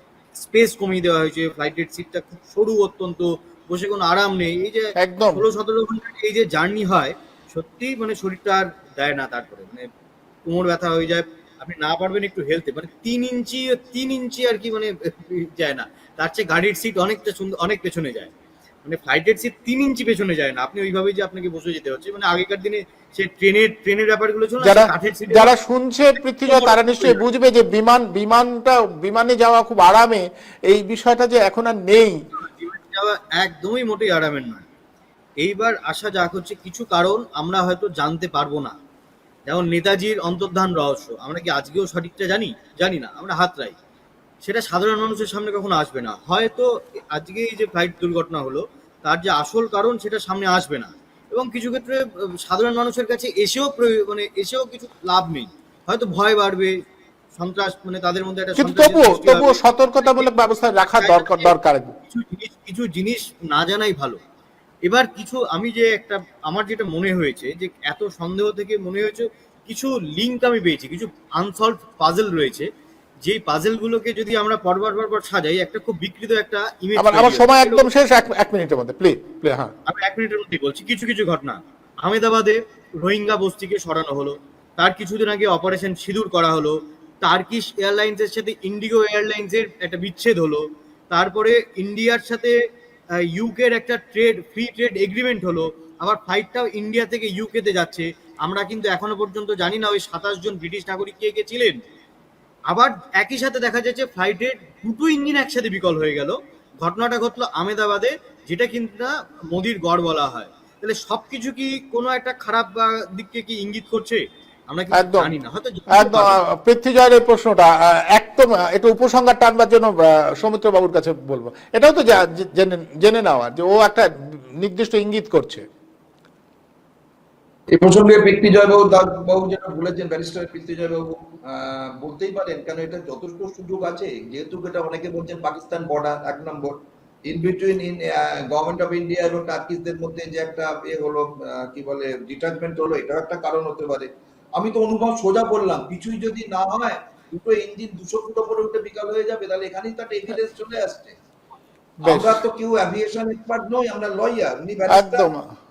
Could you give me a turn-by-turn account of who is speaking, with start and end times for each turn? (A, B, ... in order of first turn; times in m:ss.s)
0:00.4-0:09.9 A
0:05.0-0:05.4 B
0:10.5-0:18.3 A
0:18.8-0:25.5 A
0:24.6-0:32.2 B
0:26.5-0:27.2 A
0:32.4-0:34.6 A
0:35.4-0:38.7 A
0:39.5-0:43.7 A
0:44.4-0:56.7 A
0:57.4-1:00.3 A
0:58.6-1:02.0 B
1:00.9-1:01.5 A
1:02.1-1:04.2 A
1:04.9-1:12.7 A
1:13.2-1:17.8 A
1:17.0-1:19.7 B
1:19.9-1:32.5 A
1:33.3-1:41.8 A
1:42.7-1:56.4 A
1:54.9-1:55.3 B
1:55.9-2:04.1 B
2:04.6-2:05.6 B
2:07.7-2:16.7 C
2:17.3-2:31.2 C
2:32.0-2:32.4 B
2:32.0-2:35.3 C
2:34.9-2:35.5 B